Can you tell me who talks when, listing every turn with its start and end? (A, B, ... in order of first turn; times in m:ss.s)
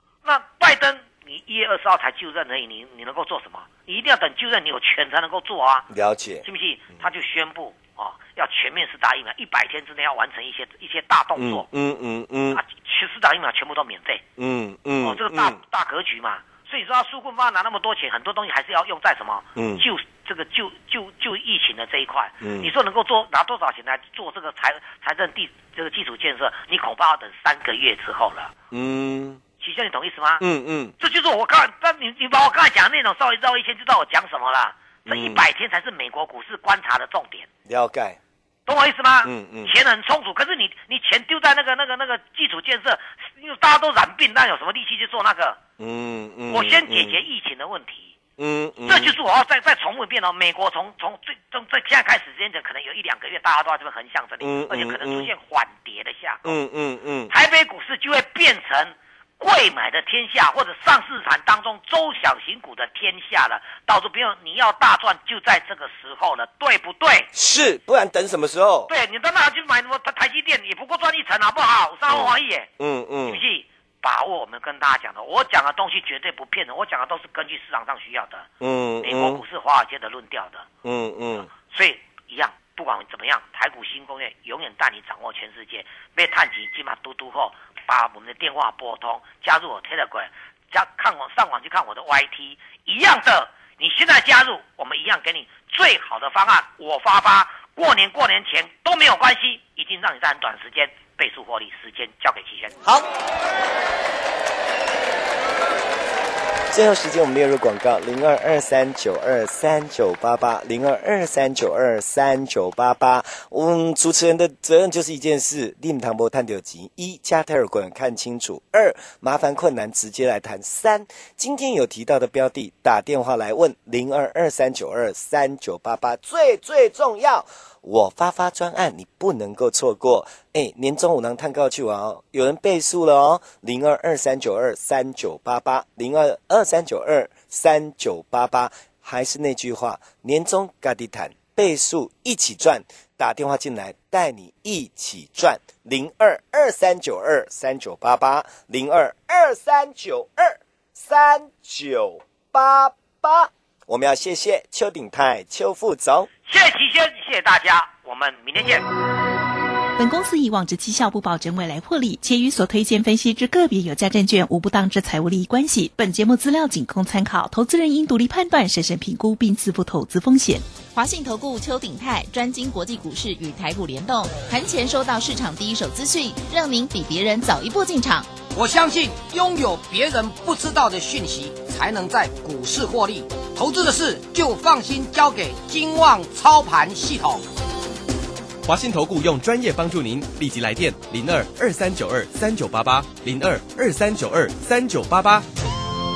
0:00.2-0:05.9 A
0:05.9-0:06.4 B
0:06.4-0:11.7 A
0:11.4-0:12.6 B
0:12.5-0:14.2 A
0:14.4-0:15.6 B
0:15.0-0:28.5 A
0:19.6-0:19.8 B
0:22.4-0:22.7 B
0:28.7-0:29.4 B
0:29.6-0:30.4 A
0:30.4-0:31.0 B
0:31.0-0:37.5 A
0:35.1-0:35.4 B
0:37.7-0:38.2 B
0:38.7-0:45.6 A
0:39.2-0:39.7 B
0:45.8-0:47.2 B
0:46.5-0:48.2 A
0:48.4-0:49.2 B
0:48.8-0:56.6 A
0:54.4-0:55.3 B
0:56.4-0:57.3 B
0:57.3-1:07.3 A
1:07.3-1:08.9 B
1:08.9-1:12.7 A
1:12.1-1:13.4 B
1:13.2-1:18.5 A
1:18.6-1:19.4 B
1:19.0-1:20.7 A
1:20.8-1:21.5 B
1:21.5-1:42.8 A
1:46.7-2:36.3 B
2:36.5-2:38.9 A
2:40.0-2:50.6 C
2:50.9-2:58.3 D
2:58.5-3:07.4 E
3:08.6-3:15.5 F